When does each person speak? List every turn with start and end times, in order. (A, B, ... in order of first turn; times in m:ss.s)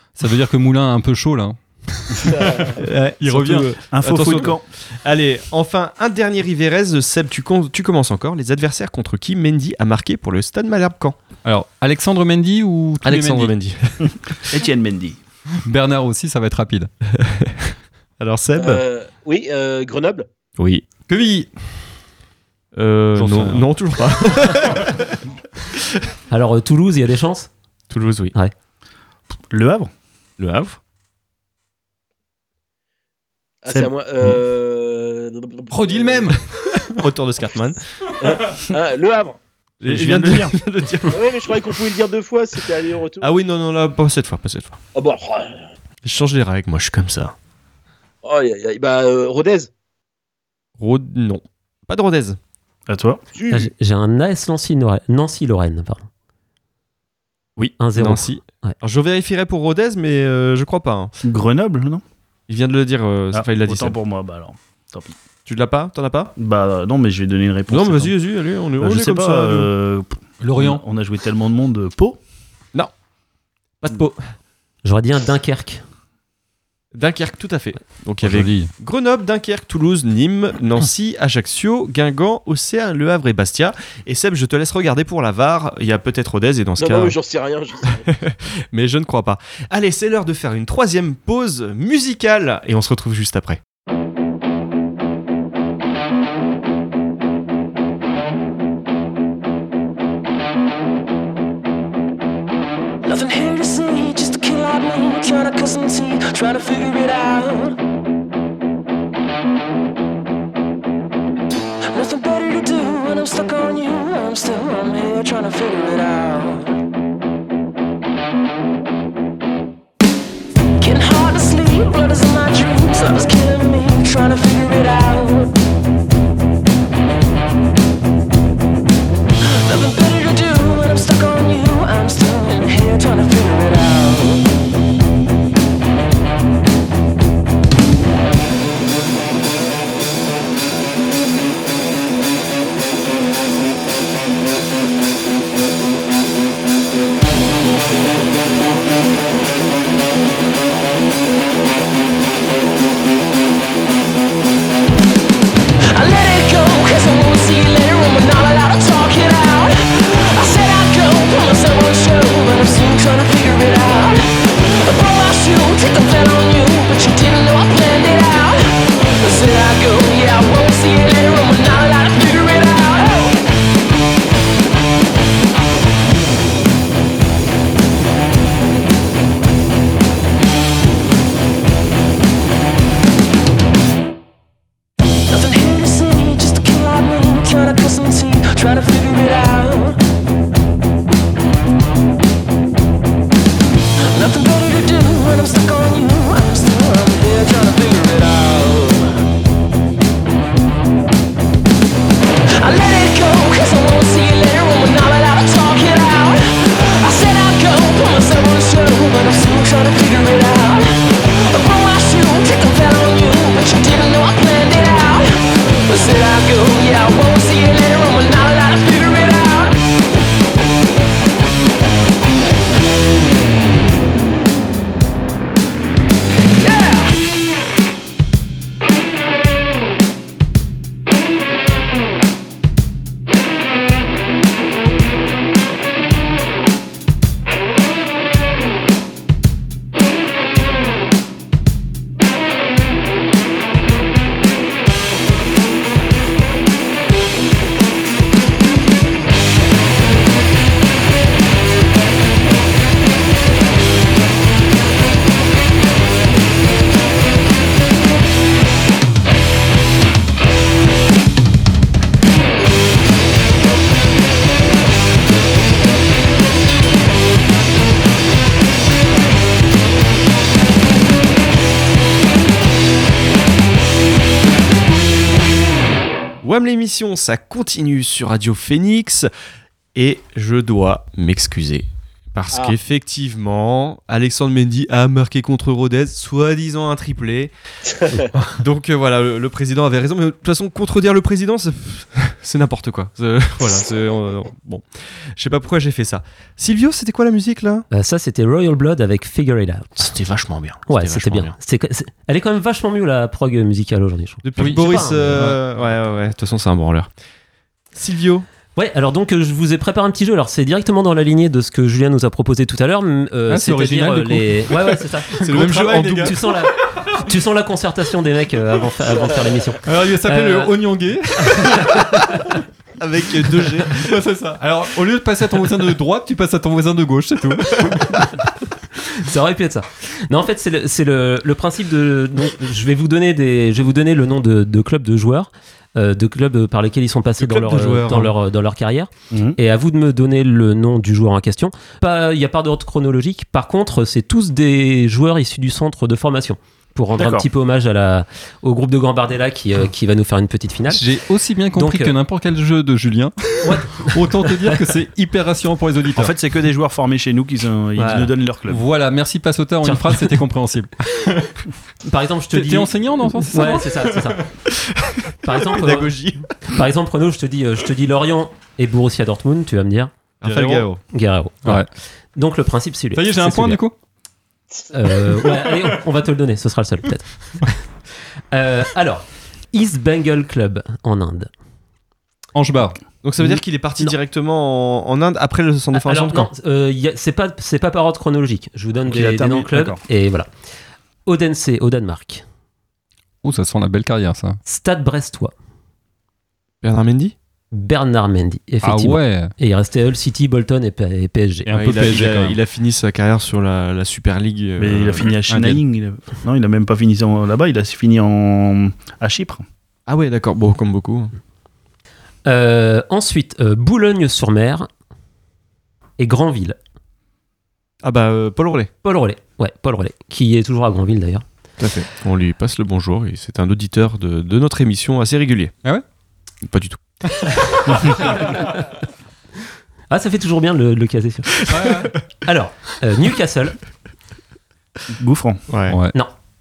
0:00.2-0:03.7 A
0:02.3-0:02.8 B
0:02.8-0:11.2 C
0:03.9-0:04.6 D
0:11.4-0:13.5 A
0:13.0-0:14.2 C
0:14.0-0:15.2 D
0:15.6-0:16.9 A
0:17.1-0:18.8 C
0:18.6-0:20.3 B
0:20.6-0:20.8 C
0:21.1-0:21.5 A
0:22.8-0:25.2 C
0:23.2-0:23.7 A
0:26.3-0:27.5 E
0:27.9-0:28.4 C
0:29.5-0:29.9 D
0:30.4-0:30.8 C
0:33.6-0:36.4 B
0:35.7-0:37.0 A
0:36.9-0:37.8 C
0:38.2-0:39.4 B
0:39.8-0:41.6 C
0:39.8-0:40.6 D
0:41.1-0:43.3 B
0:43.2-0:44.8 C
0:45.0-0:45.6 B
0:46.0-0:47.4 C
0:48.2-0:49.7 B
0:50.8-0:52.4 C
0:52.9-0:53.2 D
0:53.4-0:53.7 B
0:53.5-0:56.1 E
0:57.6-1:01.1 C
0:57.8-0:58.8 E
1:01.2-1:02.0 D
1:02.5-1:04.0 C
1:03.3-1:05.2 D
1:05.5-1:06.3 C
1:06.4-1:08.2 D
1:07.7-1:09.7 C
1:08.8-1:12.2 D
1:10.4-1:10.8 A
1:13.8-1:14.2 C
1:14.8-1:15.8 E
1:16.9-1:27.2 C
1:18.2-1:18.7 A
1:26.8-1:28.1 B
1:28.1-1:33.6 C
1:43.1-1:47.8 F
1:51.9-1:56.7 F
2:00.8-2:05.5 F
2:09.5-2:14.4 F
2:35.9-2:53.4 F
3:05.3-3:10.0 F
3:14.1-3:19.1 F
3:22.6-3:39.8 F
3:46.6-3:47.1 F
4:36.4-4:39.3 C
4:40.0-4:47.5 C
4:48.0-4:48.3 B
4:48.4-4:57.9 C
4:57.9-5:00.1 E
5:00.0-5:01.6 C
5:00.9-5:05.4 E
5:04.4-5:07.1 C
5:04.6-5:06.0 A
5:07.9-5:08.5 C
5:08.8-5:20.8 E
5:13.5-5:16.4 A
5:15.4-5:16.4 C
5:16.9-5:17.2 A
5:19.8-5:22.6 A
5:21.5-5:22.6 E
5:23.0-5:24.1 C
5:23.5-5:28.4 A
5:27.8-5:28.1 C
5:29.0-5:51.0 E
5:37.4-5:38.4 C
5:39.3-5:39.6 D
5:47.2-5:47.5 D
5:50.9-5:56.3 A
5:51.8-5:52.2 E
5:53.6-5:54.8 E
5:56.1-5:58.8 D
5:58.0-5:58.3 E
5:58.7-6:01.6 A
5:59.8-6:00.2 E
6:02.1-6:04.4 E
6:02.5-6:04.5 A
6:04.7-6:06.6 C
6:05.4-6:10.1 E
6:10.4-6:11.0 C
6:10.4-6:10.9 A
6:11.1-6:13.8 E
6:13.1-6:14.0 A
6:14.9-6:17.8 E
6:18.5-6:21.5 E
6:22.6-6:23.0 A
6:23.2-6:26.5 C
6:25.9-6:30.5 E
6:29.1-6:30.0 D
6:31.3-6:32.4 E
6:33.4-6:34.6 A
6:34.7-6:35.5 E
6:36.8-6:37.4 C
6:37.7-6:41.7 E
6:38.8-6:39.5 A
6:41.7-6:42.6 A
6:41.7-6:45.3 C
6:44.8-6:49.6 D
6:45.5-6:45.8 A
6:50.1-6:51.3 C
6:52.5-6:54.9 E
6:56.2-6:56.8 E
6:58.0-6:58.9 C
6:59.0-7:01.4 E
7:01.8-7:05.8 C
7:06.6-7:08.3 C
7:07.3-7:08.7 A
7:08.3-7:08.7 E
7:10.1-7:11.6 E
7:11.6-7:12.1 C
7:11.7-7:12.1 A
7:12.4-7:13.8 E
7:15.1-7:15.6 D
7:15.7-7:16.0 C
7:15.9-7:16.2 A